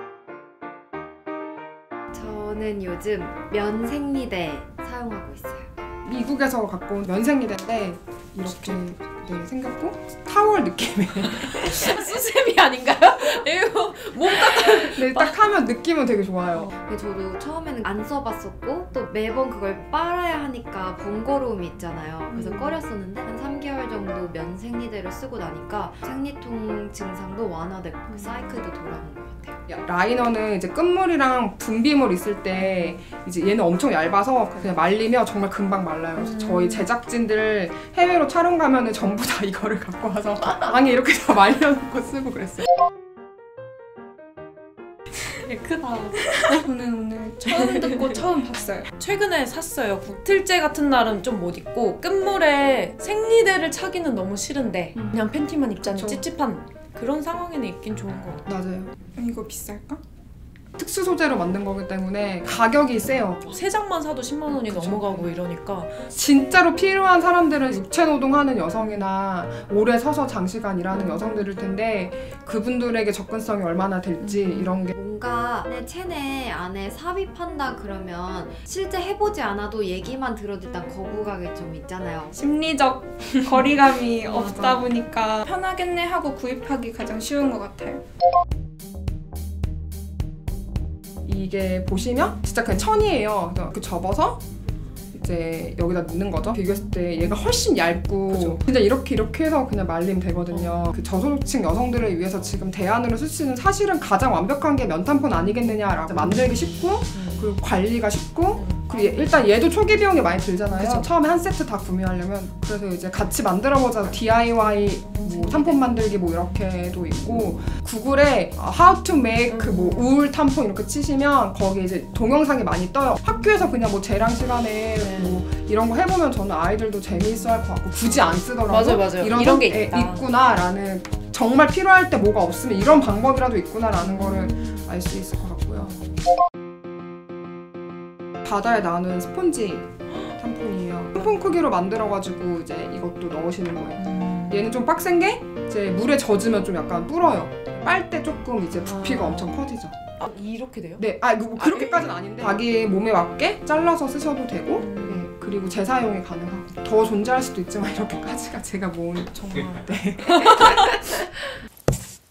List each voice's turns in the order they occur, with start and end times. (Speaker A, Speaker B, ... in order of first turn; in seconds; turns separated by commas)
Speaker A: 2.1-5.7, Speaker B: 6.0-12.0, Speaker C: 8.5-9.1, Speaker C: 11.2-15.3, Speaker B: 14.8-16.7, Speaker A: 16.7-29.6, Speaker C: 22.3-22.8, Speaker B: 29.7-42.7, Speaker C: 36.2-36.9, Speaker C: 45.4-46.5, Speaker D: 45.9-48.9, Speaker C: 47.4-48.2, Speaker C: 48.9-58.4, Speaker B: 55.9-56.2, Speaker B: 58.5-59.0, Speaker D: 59.2-60.0, Speaker B: 60.8-63.5, Speaker C: 63.5-66.0, Speaker B: 64.5-65.3, Speaker B: 66.1-74.9, Speaker C: 74.2-74.7, Speaker A: 74.9-82.3, Speaker D: 82.3-88.0, Speaker B: 84.3-84.8, Speaker B: 91.2-94.4, Speaker B: 95.1-135.9, Speaker C: 100.6-100.9, Speaker C: 107.1-107.5, Speaker C: 108.5-109.2, Speaker C: 110.7-111.1, Speaker C: 115.3-115.7, Speaker C: 119.5-120.1, Speaker C: 125.0-125.4, Speaker C: 128.7-130.2, Speaker C: 134.1-134.8, Speaker B: 138.4-150.0, Speaker C: 144.0-144.7, Speaker C: 149.0-149.5, Speaker C: 150.2-151.0, Speaker B: 151.0-161.3, Speaker C: 151.6-152.1, Speaker C: 154.8-155.2